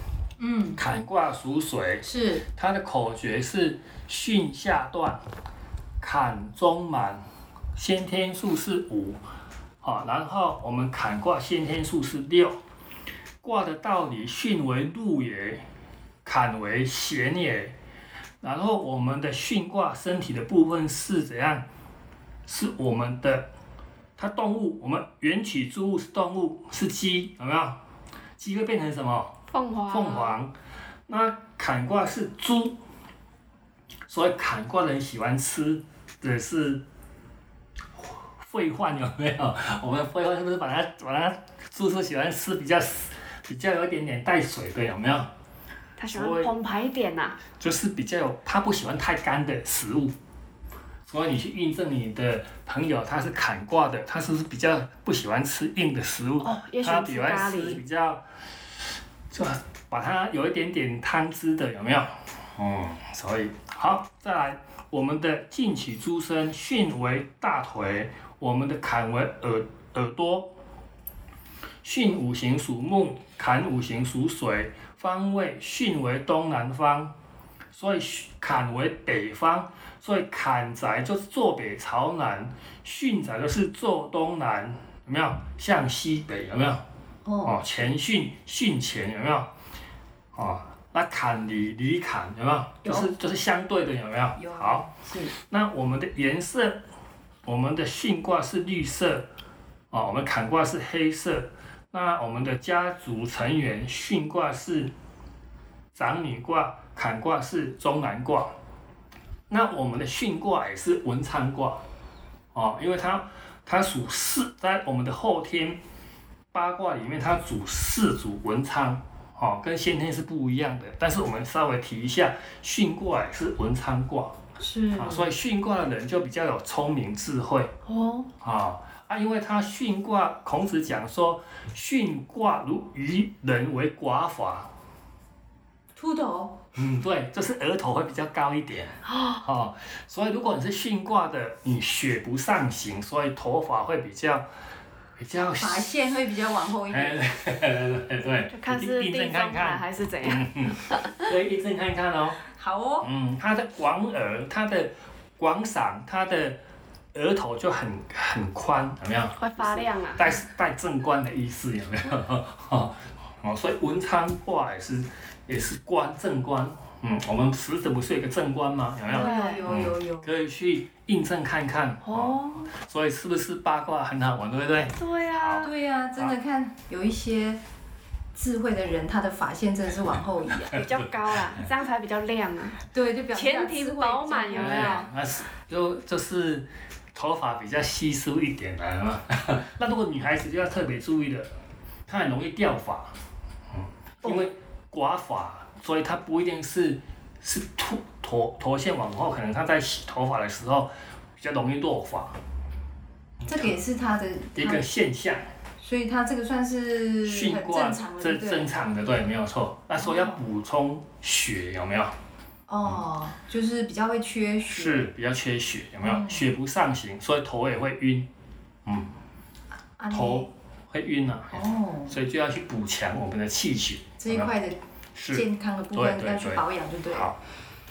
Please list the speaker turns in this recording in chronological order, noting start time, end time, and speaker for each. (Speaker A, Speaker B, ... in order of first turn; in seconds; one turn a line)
Speaker A: 0.4-0.8
Speaker B: 0.8-5.2
Speaker A: 2.0-2.5
Speaker B: 6.0-7.2
Speaker B: 7.7-9.2
Speaker B: 9.8-12.6
Speaker B: 13.4-15.6
Speaker B: 16.2-17.8
Speaker B: 18.4-21.6
Speaker B: 22.4-23.5
Speaker B: 24.2-27.8
Speaker B: 28.4-29.3
Speaker C: 29.5-30.4
Speaker B: 29.9-30.5
Speaker B: 31.1-32.8
Speaker B: 34.1-36.8
Speaker B: 38.4-45.3
Speaker C: 46.0-47.4
Speaker B: 46.1-46.5
Speaker B: 47.5-50.1
Speaker B: 51.1-58.2
Speaker C: 56.4-57.8
Speaker B: 59.3-70.5
Speaker B: 71.8-77.1
Speaker B: 77.7-86.8
Speaker A: 87.2-87.6
Speaker B: 87.4-89.5
Speaker B: 90.3-96.8
Speaker A: 92.8-93.1
Speaker A: 94.3-95.3
Speaker B: 97.4-99.3
Speaker B: 99.9-104.9
Speaker B: 105.9-108.5
Speaker B: 109.5-111.8
Speaker B: 112.5-115.8
Speaker B: 116.5-124.3
Speaker A: 124.6-125.3
Speaker B: 125.0-127.7
Speaker C: 127.8-128.3
Speaker B: 128.4-134.7
Speaker A: 135.9-136.6
Speaker B: 136.7-144.5
Speaker C: 139.1-139.4
Speaker B: 145.2-146.1
Speaker A: 145.6-147.2
Speaker B: 146.9-152.4
Speaker C: 148.5-151.3
Speaker A: 152.5-153.1
Speaker B: 153.0-156.6
Speaker B: 157.1-159.4
Speaker C: 159.4-160.3
Speaker B: 160.1-176.3
Speaker A: 169.1-170.3
Speaker C: 169.1-169.6
Speaker C: 172.0-172.7
Speaker C: 175.0-175.7
Speaker A: 175.6-177.6
Speaker A: 178.3-180.8
Speaker C: 180.7-182.8
Speaker B: 180.7-181.6
Speaker A: 182.9-184.9
Speaker C: 183.3-185.1
Speaker B: 184.5-191.5
Speaker B: 192.1-193.1
Speaker B: 193.7-202.4
Speaker B: 203.4-203.7
Speaker A: 203.4-204.8
Speaker B: 204.6-205.4
Speaker A: 205.8-208.7
Speaker B: 207.2-212.2
Speaker A: 210.0-210.4
Speaker A: 212.7-215.1
Speaker B: 214.7-218.3
Speaker A: 216.0-216.4
Speaker B: 218.8-219.1
Speaker A: 220.0-220.5
Speaker B: 220.1-224.5
Speaker A: 221.5-222.1
Speaker A: 224.2-227.3
Speaker B: 225.1-227.4